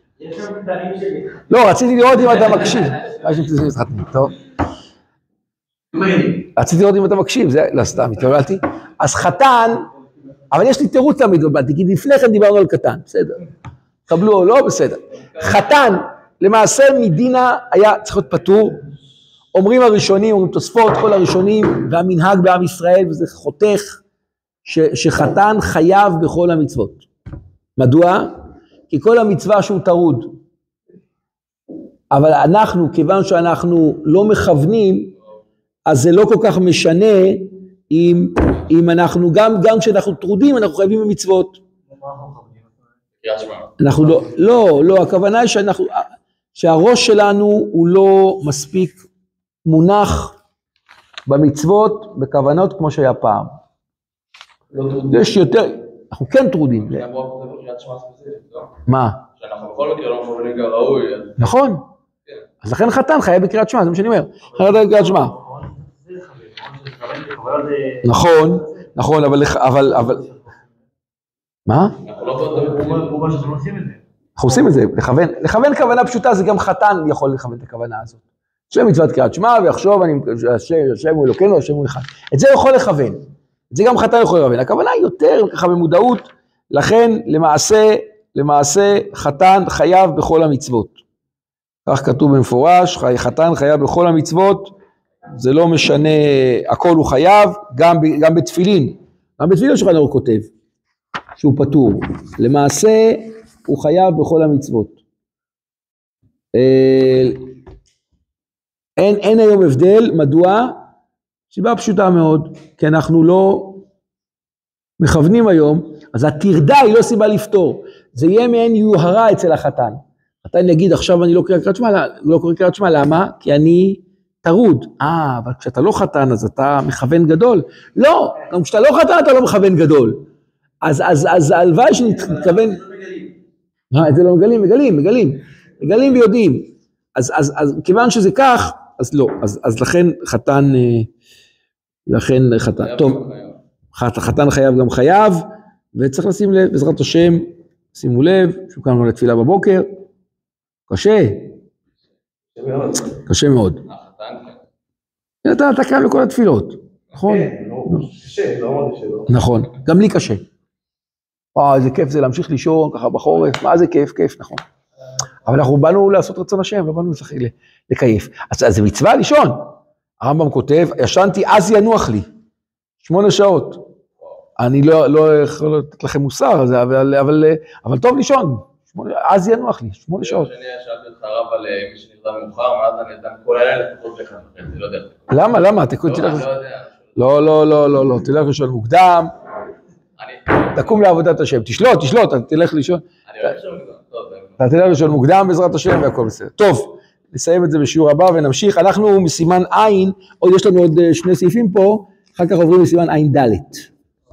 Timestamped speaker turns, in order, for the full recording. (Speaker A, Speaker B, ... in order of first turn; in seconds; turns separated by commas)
Speaker A: 0.2-1.4, Speaker B: 1.5-4.4, Speaker C: 2.2-3.1, Speaker B: 6.5-9.9, Speaker B: 10.5-13.4, Speaker B: 14.1-18.8, Speaker B: 19.5-24.0, Speaker B: 24.6-27.1, Speaker B: 27.8-30.4, Speaker B: 32.1-35.1, Speaker B: 35.9-41.6, Speaker A: 41.9-42.7, Speaker C: 43.2-43.7, Speaker B: 43.8-49.0, Speaker B: 49.6-50.3, Speaker B: 51.3-53.6, Speaker C: 54.7-55.3, Speaker B: 55.1-57.0, Speaker C: 56.8-58.7, Speaker B: 58.9-59.2, Speaker C: 59.4-61.5, Speaker B: 61.4-61.9, Speaker B: 62.6-65.3, Speaker A: 64.5-68.0, Speaker B: 68.0-70.2, Speaker A: 70.1-70.4, Speaker B: 71.7-72.0, Speaker C: 72.0-73.3, Speaker A: 72.2-74.0, Speaker B: 74.4-91.0, Speaker B: 91.8-94.7, Speaker B: 95.3-100.5, Speaker B: 101.4-105.0, Speaker B: 106.5-107.4, Speaker B: 109.0-110.8, Speaker B: 111.5-113.8, Speaker B: 115.0-130.2, Speaker B: 130.8-132.8, Speaker D: 132.4-133.0, Speaker B: 133.9-141.1, Speaker B: 142.1-143.2, Speaker C: 142.7-143.6, Speaker B: 143.9-149.9, Speaker B: 150.9-151.5, Speaker D: 152.5-153.1, Speaker B: 153.2-153.8, Speaker C: 153.9-154.6, Speaker B: 155.4-158.1, Speaker D: 157.2-159.3, Speaker B: 159.3-160.4, Speaker B: 161.5-164.6, Speaker B: 165.4-172.3, Speaker B: 173.0-173.9, Speaker B: 174.6-180.5, Speaker C: 180.2-185.3, Speaker B: 185.3-186.5, Speaker C: 186.0-187.1, Speaker B: 187.1-189.3, Speaker C: 190.2-191.0, Speaker B: 190.7-193.5, Speaker C: 193.3-194.9, Speaker B: 194.6-203.9